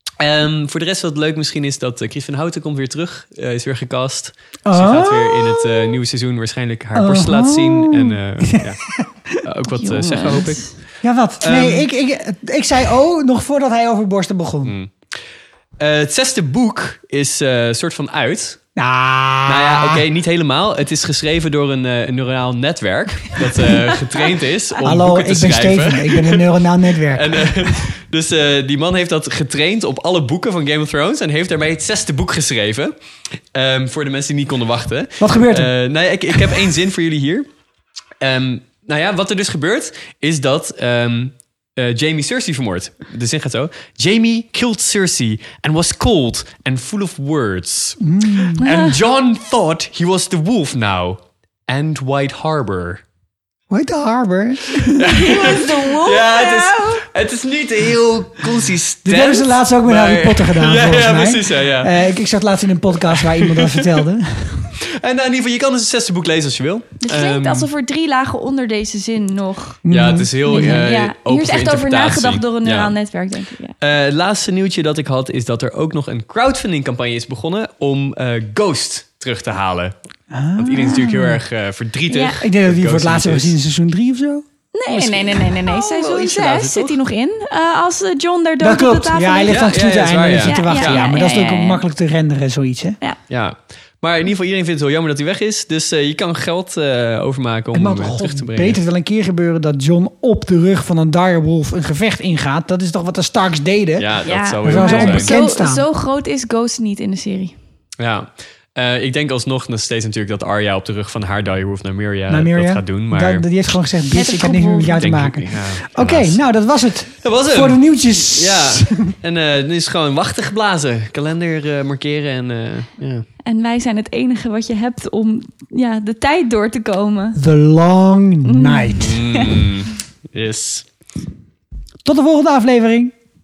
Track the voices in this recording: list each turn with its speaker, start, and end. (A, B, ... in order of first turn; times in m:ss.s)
0:00.2-0:08.8 A
0:04.7-0:05.9 B
0:07.0-0:09.4 B
0:09.4-0:10.7 A
0:09.8-0:10.7 C
0:11.0-0:14.8 B
0:11.4-0:11.9 A
0:14.6-0:14.9 A
0:15.8-0:18.6 A
0:18.8-0:20.0 B
0:19.5-0:26.5 A
0:24.8-0:27.8 B
0:27.1-0:32.9 A
0:33.5-0:37.5 A
0:35.2-0:35.7 B
0:38.2-0:53.0 A
0:48.0-0:48.6 B
0:48.6-0:48.9 C
0:53.7-0:55.3 B
0:55.0-1:01.9 A
0:55.2-0:57.0 C
0:59.0-1:04.7 B
1:03.1-1:04.0 A
1:05.0-1:07.7 A
1:07.0-1:09.8 C
1:09.9-1:10.9 B
1:09.9-1:13.0 A
1:10.5-1:13.8 C
1:13.8-1:19.9 A
1:20.3-1:21.4 B
1:20.6-1:23.5 A
1:22.1-1:22.4 C
1:22.4-1:25.6 B
1:24.7-1:29.5 C
1:25.6-1:26.9 A
1:28.6-1:33.0 B
1:29.5-1:31.1 A
1:30.4-1:31.8 C
1:33.3-1:38.8 A
1:37.7-1:44.1 B
1:44.0-1:45.3 A
1:44.2-1:47.6 C
1:44.6-1:45.8 B
1:48.0-1:53.4 A
1:52.3-1:59.1 B
1:54.1-1:55.0 C
1:55.0-1:56.4 A
1:57.2-2:03.3 A
2:03.5-2:07.4 C
2:07.4-2:09.1 B
2:08.4-2:09.5 C
2:09.0-2:10.9 A
2:12.0-2:13.1 B